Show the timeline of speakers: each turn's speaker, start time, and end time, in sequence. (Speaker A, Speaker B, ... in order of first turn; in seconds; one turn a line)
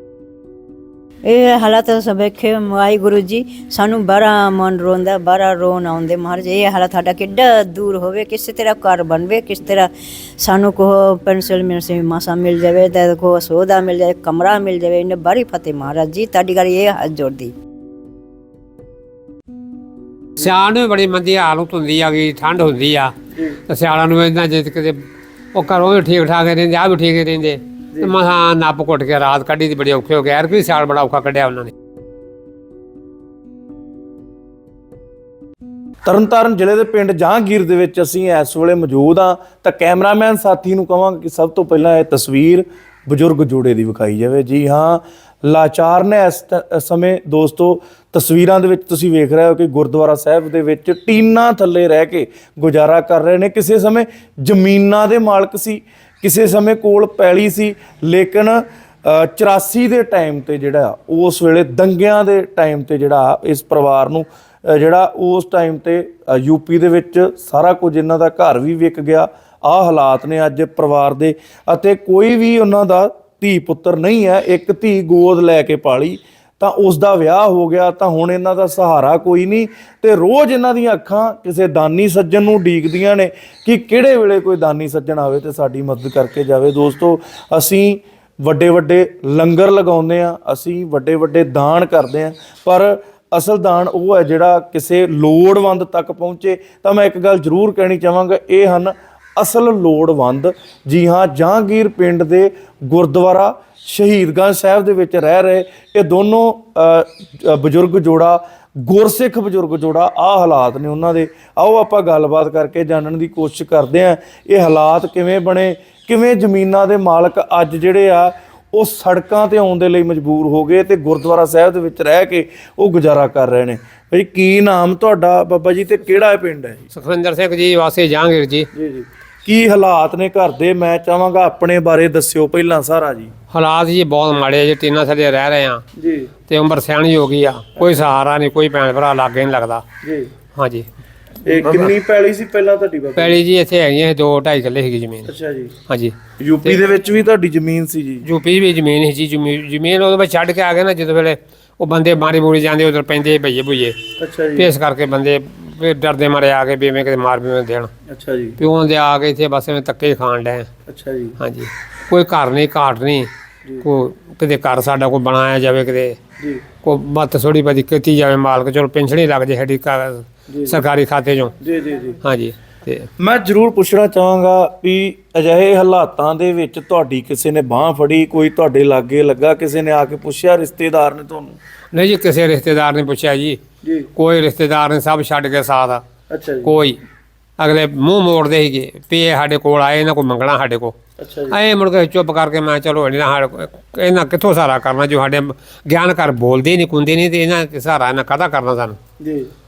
Speaker A: 1.3-9.9
Speaker A: 10.4-17.5
Speaker B: 20.4-23.1
Speaker C: 23.3-23.6
Speaker B: 23.6-31.7
Speaker C: 36.0-126.8
Speaker B: 126.9-128.7
Speaker C: 128.7-133.3
Speaker B: 133.5-135.8
Speaker C: 135.9-136.3
Speaker B: 136.5-139.8
Speaker C: 140.0-140.3
Speaker B: 140.5-140.9
Speaker C: 141.4-143.4
Speaker B: 141.5-141.9
Speaker B: 143.2-145.3
Speaker C: 145.2-145.7
Speaker B: 145.9-146.1
Speaker C: 146.4-148.2
Speaker B: 148.2-154.0
Speaker C: 154.2-154.7
Speaker B: 154.6-157.9
Speaker C: 158.1-158.6
Speaker B: 158.6-160.7
Speaker C: 160.9-161.4
Speaker B: 161.4-163.3
Speaker B: 163.8-166.2
Speaker B: 166.8-171.6
Speaker C: 170.5-170.8
Speaker C: 171.6-172.2
Speaker B: 172.2-173.1
Speaker C: 173.2-181.6
Speaker B: 181.9-183.6
Speaker C: 183.8-184.1
Speaker B: 184.1-186.0
Speaker C: 186.3-186.8
Speaker B: 186.6-187.0
Speaker B: 187.6-190.9
Speaker C: 191.2-191.6
Speaker B: 191.5-199.0
Speaker C: 199.2-199.5